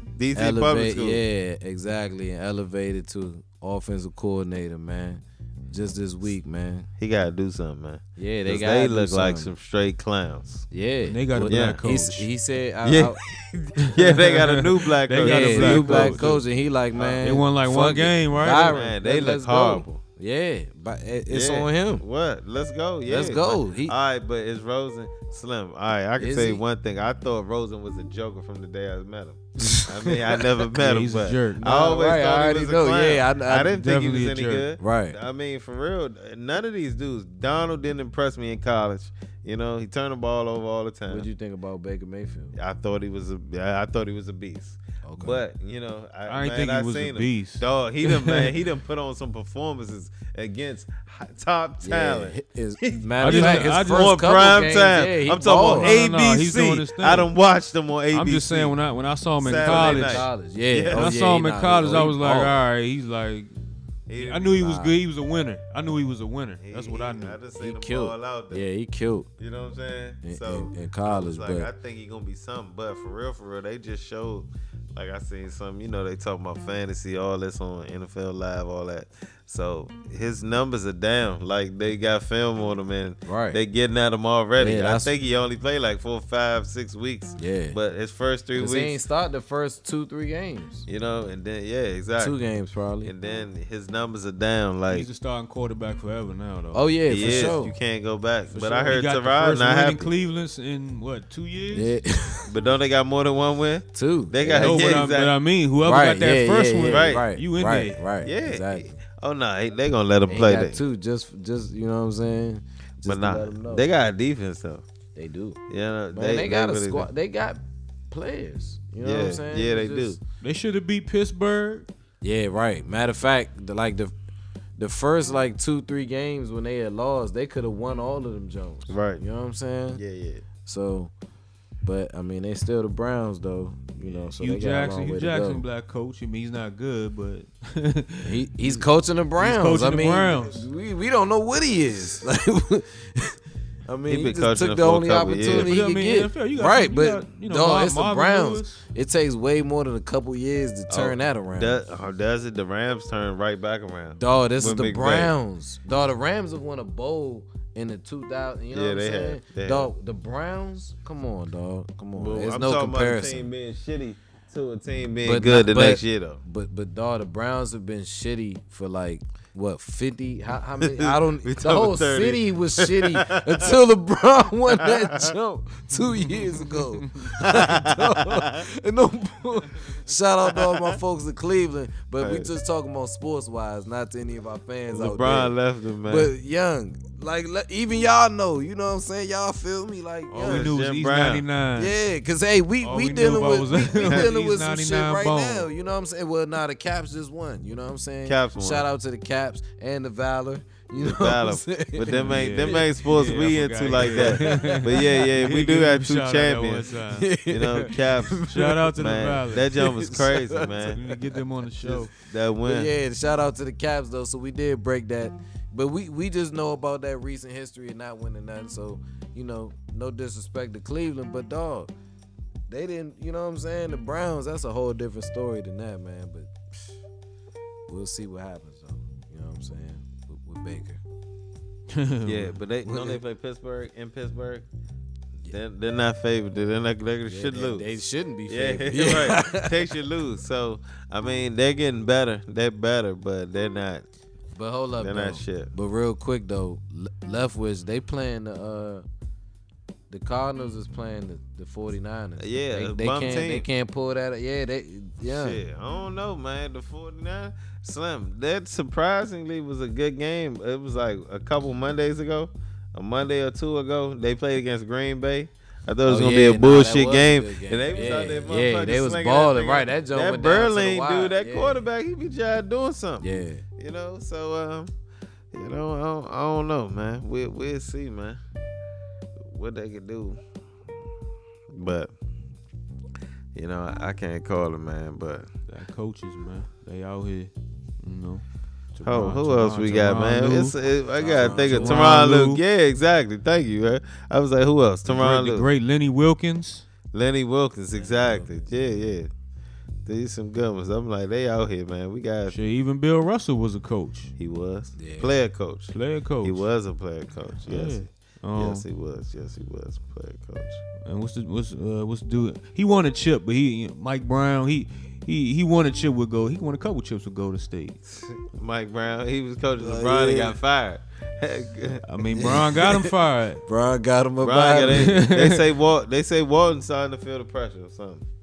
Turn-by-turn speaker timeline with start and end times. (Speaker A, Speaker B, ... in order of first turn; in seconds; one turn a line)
Speaker A: 0.1-1.2
Speaker B: 0.3-6.9
Speaker A: 7.0-10.7
Speaker B: 8.2-9.5
Speaker B: 10.7-13.2
Speaker C: 11.0-12.3
Speaker A: 11.4-11.8
Speaker A: 12.8-16.4
Speaker C: 14.0-14.3
Speaker C: 14.8-16.4
Speaker B: 15.2-22.0
Speaker A: 16.9-17.2
Speaker C: 17.2-18.8
Speaker A: 18.7-19.9
Speaker A: 21.3-41.3
Speaker B: 23.1-23.9
Speaker B: 26.2-26.6
Speaker B: 29.6-30.1
Speaker C: 30.8-31.6
Speaker B: 31.6-33.8
Speaker C: 33.7-34.7
Speaker B: 34.8-35.2
Speaker B: 41.1-42.6
Speaker A: 42.5-58.8
Speaker B: 45.0-45.4
Speaker C: 46.3-48.5
Speaker B: 51.8-56.0
Speaker C: 53.2-54.2
Speaker C: 55.7-57.3
Speaker C: 58.1-60.3
Speaker A: 59.4-61.1
Speaker B: 59.4-62.6
Speaker C: 60.9-63.5
Speaker A: 64.1-64.8
Speaker C: 64.1-67.4
Speaker B: 64.6-64.9
Speaker A: 66.6-68.6
Speaker B: 67.5-69.3
Speaker A: 69.4-89.0
Speaker B: 70.2-71.7
Speaker B: 83.2-83.6
Speaker B: 84.5-85.1
Speaker B: 87.4-87.8
Speaker B: 88.5-90.9
Speaker A: 90.9-92.3
Speaker B: 92.2-93.2
Speaker A: 93.0-95.1
Speaker C: 94.9-97.6
Speaker B: 96.7-97.7
Speaker A: 97.1-100.1
Speaker C: 98.5-102.0
Speaker B: 101.7-102.5
Speaker A: 102.5-105.3
Speaker B: 103.9-105.0
Speaker C: 104.5-108.0
Speaker B: 105.8-108.9
Speaker A: 106.8-107.2
Speaker A: 108.2-110.8
Speaker B: 110.3-113.9
Speaker A: 113.0-114.8
Speaker B: 115.1-115.6
Speaker A: 115.7-117.1
Speaker B: 116.1-120.2
Speaker A: 119.0-120.2
Speaker C: 120.4-121.9
Speaker B: 122.2-124.1
Speaker B: 124.8-130.0
Speaker A: 128.9-129.2
Speaker A: 129.9-130.4
Speaker B: 130.6-131.1
Speaker B: 131.8-135.6
Speaker C: 134.0-138.8
Speaker B: 138.2-143.3
Speaker C: 139.4-140.7
Speaker B: 143.9-151.8
Speaker A: 144.1-145.7
Speaker C: 145.5-148.8
Speaker A: 150.9-155.3
Speaker B: 154.2-163.5
Speaker A: 158.7-159.9
Speaker A: 162.2-166.4
Speaker B: 165.2-190.8
Speaker A: 170.8-173.8
Speaker A: 174.8-175.3
Speaker C: 176.2-177.3
Speaker A: 177.4-178.6
Speaker A: 180.5-180.9
Speaker A: 182.2-182.5
Speaker A: 184.9-186.3
Speaker C: 190.3-192.0
Speaker A: 190.4-191.4
Speaker B: 191.8-202.9
Speaker C: 192.8-195.7
Speaker A: 198.2-198.9
Speaker A: 201.0-206.9
Speaker C: 202.1-207.3
Speaker B: 204.0-205.2
Speaker B: 207.1-208.8
Speaker A: 207.5-211.0
Speaker C: 208.4-209.7
Speaker B: 209.7-211.0
Speaker C: 210.6-212.1
Speaker A: 211.9-212.9
Speaker B: 212.6-221.9
Speaker B: 222.7-226.5
Speaker B: 227.9-231.0
Speaker C: 231.9-232.6
Speaker A: 232.2-234.7
Speaker B: 232.8-233.2
Speaker A: 235.5-244.1
Speaker B: 237.2-239.8
Speaker B: 244.5-249.0
Speaker A: 245.0-245.7
Speaker B: 250.1-255.6
Speaker A: 252.4-253.7
Speaker A: 255.2-274.9
Speaker B: 266.0-271.9
Speaker B: 273.2-273.6
Speaker A: 275.5-278.4
Speaker A: 279.4-280.4
Speaker A: 281.7-282.1
Speaker A: 283.5-285.5
Speaker C: 285.7-290.8
Speaker A: 289.0-295.7
Speaker B: 291.2-292.0
Speaker C: 291.3-292.6
Speaker C: 295.1-296.9
Speaker A: 297.1-299.3
Speaker B: 297.9-298.8
Speaker A: 300.1-302.6
Speaker C: 302.5-304.3
Speaker A: 304.4-310.8
Speaker B: 304.9-305.4
Speaker C: 305.9-306.7
Speaker C: 307.6-308.8
Speaker C: 311.0-318.0
Speaker A: 318.1-322.7
Speaker B: 319.8-320.6
Speaker C: 322.0-323.6
Speaker B: 322.4-322.9
Speaker B: 323.6-325.1
Speaker A: 324.4-328.2
Speaker C: 324.9-325.6